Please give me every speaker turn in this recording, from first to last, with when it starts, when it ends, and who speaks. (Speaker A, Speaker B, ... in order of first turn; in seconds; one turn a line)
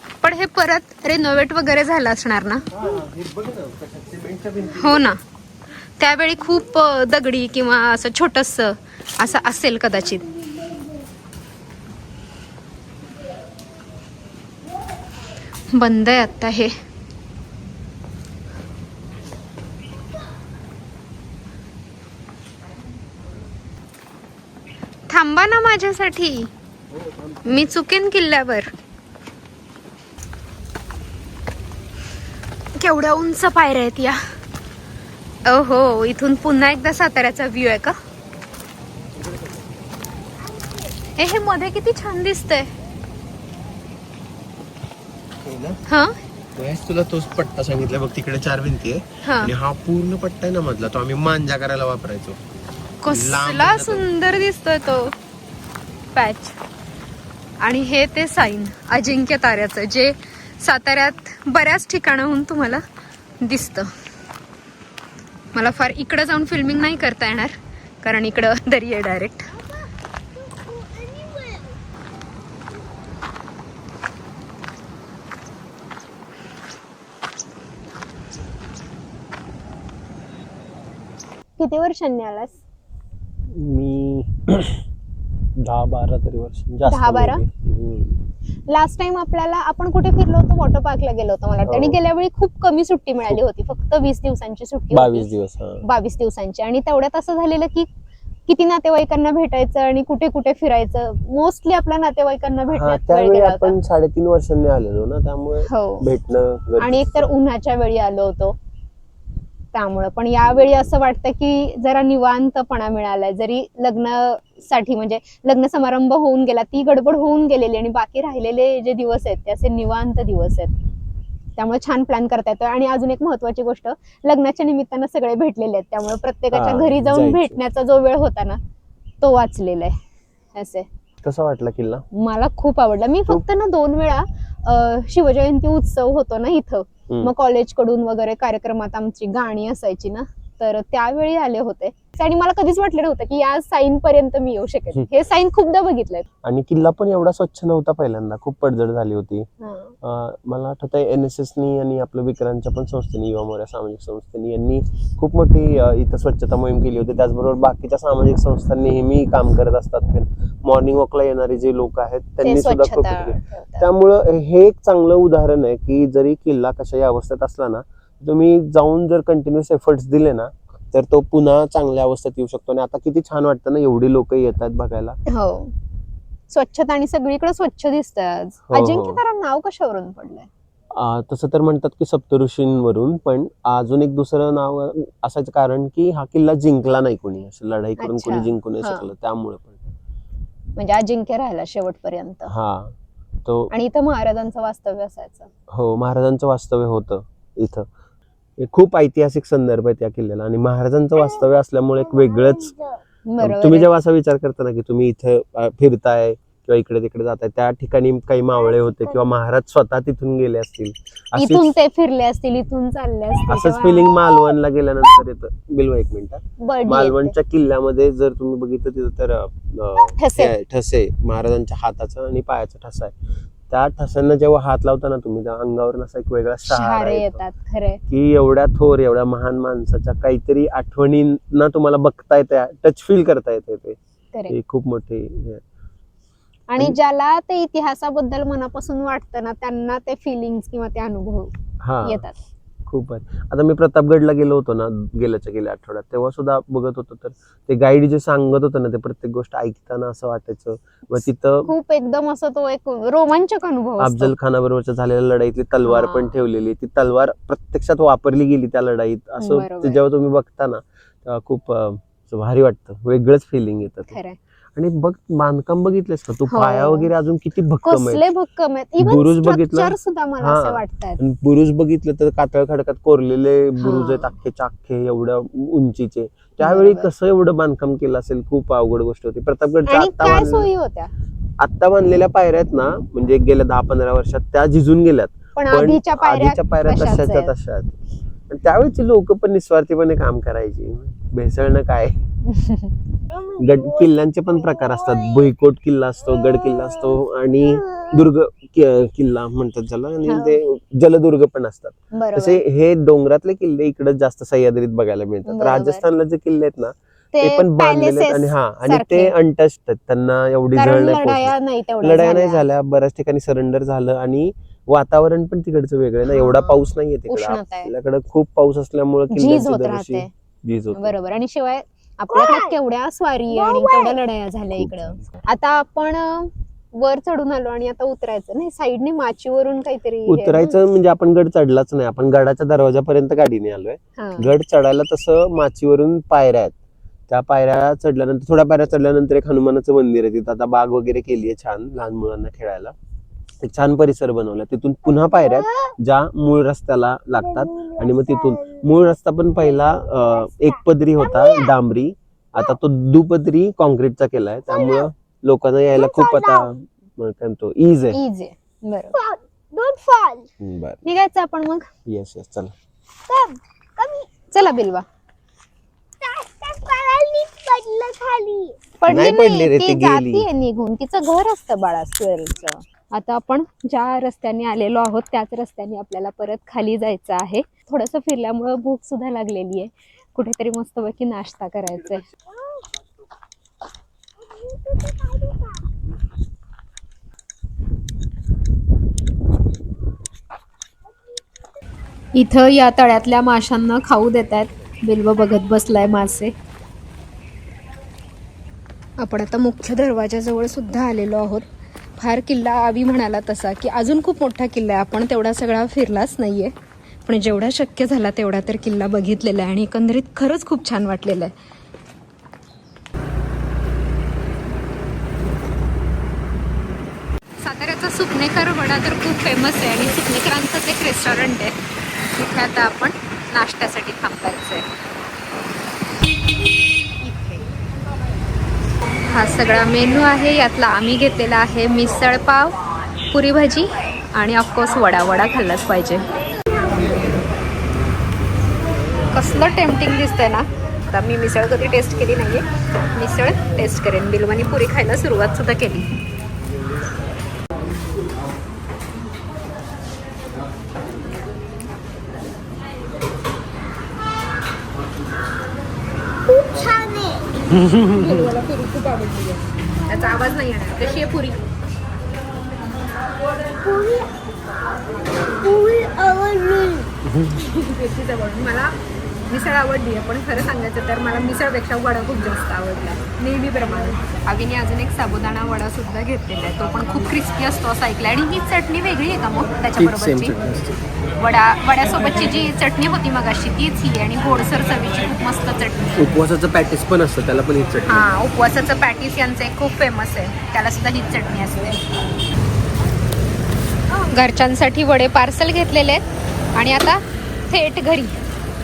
Speaker A: 0.2-2.6
Speaker B: 2.7-5.2
Speaker A: 4.7-5.2
Speaker A: 6.0-10.2
Speaker A: 15.7-16.7
Speaker A: 25.1-26.5
Speaker B: 26.9-27.7
Speaker A: 27.5-28.7
Speaker A: 32.8-34.2
Speaker A: 35.5-38.0
Speaker B: 39.2-39.7
Speaker C: 40.5-40.8
Speaker A: 41.2-42.7
Speaker B: 45.4-45.8
Speaker A: 45.9-46.1
Speaker B: 46.6-52.4
Speaker A: 49.2-49.5
Speaker A: 53.0-55.1
Speaker B: 53.1-54.1
Speaker A: 56.1-56.6
Speaker A: 57.6-62.8
Speaker A: 63.4-63.9
Speaker A: 65.5-69.5
Speaker C: 69.6-71.8
Speaker A: 81.6-82.6
Speaker B: 83.5-84.8
Speaker B: 85.6-88.2
Speaker A: 86.9-87.4
Speaker A: 88.7-95.3
Speaker B: 91.7-92.0
Speaker B: 94.9-95.8
Speaker A: 95.8-97.9
Speaker A: 98.5-103.8
Speaker B: 102.7-107.3
Speaker A: 105.7-106.1
Speaker A: 106.8-108.6
Speaker A: 109.7-120.8
Speaker A: 121.6-128.6
Speaker B: 126.5-127.6
Speaker A: 129.2-130.0
Speaker A: 130.5-130.9
Speaker B: 131.2-132.1
Speaker A: 132.1-146.3
Speaker B: 146.4-149.5
Speaker A: 149.6-149.9
Speaker B: 150.0-175.2
Speaker A: 162.4-163.9
Speaker A: 175.3-175.7
Speaker A: 176.5-180.5
Speaker B: 178.7-179.2
Speaker B: 181.0-189.9
Speaker A: 188.0-189.1
Speaker A: 190.8-192.5
Speaker B: 192.5-192.9
Speaker A: 193.7-195.5
Speaker B: 195.7-197.9
Speaker B: 198.6-202.7
Speaker C: 202.1-203.0
Speaker A: 203.3-203.9
Speaker B: 203.4-211.7
Speaker C: 208.6-209.2
Speaker A: 211.4-214.2
Speaker B: 213.5-223.1
Speaker A: 216.6-217.3
Speaker A: 220.0-220.5
Speaker B: 223.7-227.4
Speaker A: 226.7-228.0
Speaker B: 228.1-234.0
Speaker B: 234.5-235.6
Speaker A: 236.7-241.5
Speaker B: 241.8-242.3
Speaker A: 242.0-242.4
Speaker B: 242.9-251.7
Speaker A: 251.7-254.3
Speaker B: 254.0-264.1
Speaker A: 255.8-256.4
Speaker A: 259.4-260.0
Speaker A: 264.1-264.4
Speaker B: 264.8-268.2
Speaker A: 266.5-267.1
Speaker A: 267.9-271.2
Speaker B: 269.0-280.7
Speaker A: 273.8-274.3
Speaker A: 276.6-277.1
Speaker A: 279.9-281.1
Speaker B: 281.6-288.0
Speaker A: 285.6-287.5
Speaker B: 288.5-292.1
Speaker A: 292.5-292.9
Speaker C: 293.4-294.1
Speaker B: 293.6-321.1
Speaker C: 294.8-295.5
Speaker A: 300.2-300.6
Speaker A: 302.1-302.6
Speaker A: 305.5-306.1
Speaker A: 307.3-309.3
Speaker A: 310.8-312.6
Speaker A: 316.3-317.9
Speaker A: 319.3-320.3
Speaker A: 320.9-330.8
Speaker C: 322.3-322.7
Speaker C: 323.5-324.2
Speaker B: 324.8-325.5
Speaker B: 330.3-336.8
Speaker A: 334.2-334.5
Speaker B: 337.3-342.9
Speaker B: 343.6-358.2
Speaker C: 345.3-345.9
Speaker C: 347.4-348.9
Speaker C: 349.6-351.8
Speaker C: 354.7-355.1
Speaker C: 355.9-356.7
Speaker A: 358.1-359.1
Speaker C: 359.1-360.5
Speaker B: 360.6-361.0
Speaker A: 361.1-361.9
Speaker B: 362.1-362.7
Speaker C: 363.3-364.5
Speaker A: 364.5-365.1
Speaker C: 366.2-368.8
Speaker A: 369.0-382.2
Speaker B: 369.1-370.5
Speaker C: 382.5-382.8
Speaker C: 384.4-385.9
Speaker A: 392.4-396.5
Speaker A: 399.2-401.6
Speaker A: 402.2-406.7
Speaker A: 407.2-411.5
Speaker A: 417.6-421.8
Speaker A: 422.3-424.9
Speaker A: 427.2-427.6
Speaker A: 429.3-432.8
Speaker A: 433.3-436.2
Speaker A: 439.3-446.1
Speaker C: 456.5-457.6
Speaker B: 457.7-458.3
Speaker A: 457.9-461.7
Speaker C: 463.8-464.3
Speaker C: 465.6-467.1
Speaker B: 467.2-467.6
Speaker A: 467.5-468.9
Speaker A: 469.5-480.6
Speaker B: 480.0-481.0
Speaker A: 481.4-486.3
Speaker B: 486.2-488.3
Speaker A: 488.1-492.0
Speaker A: 494.2-496.2
Speaker A: 496.8-498.4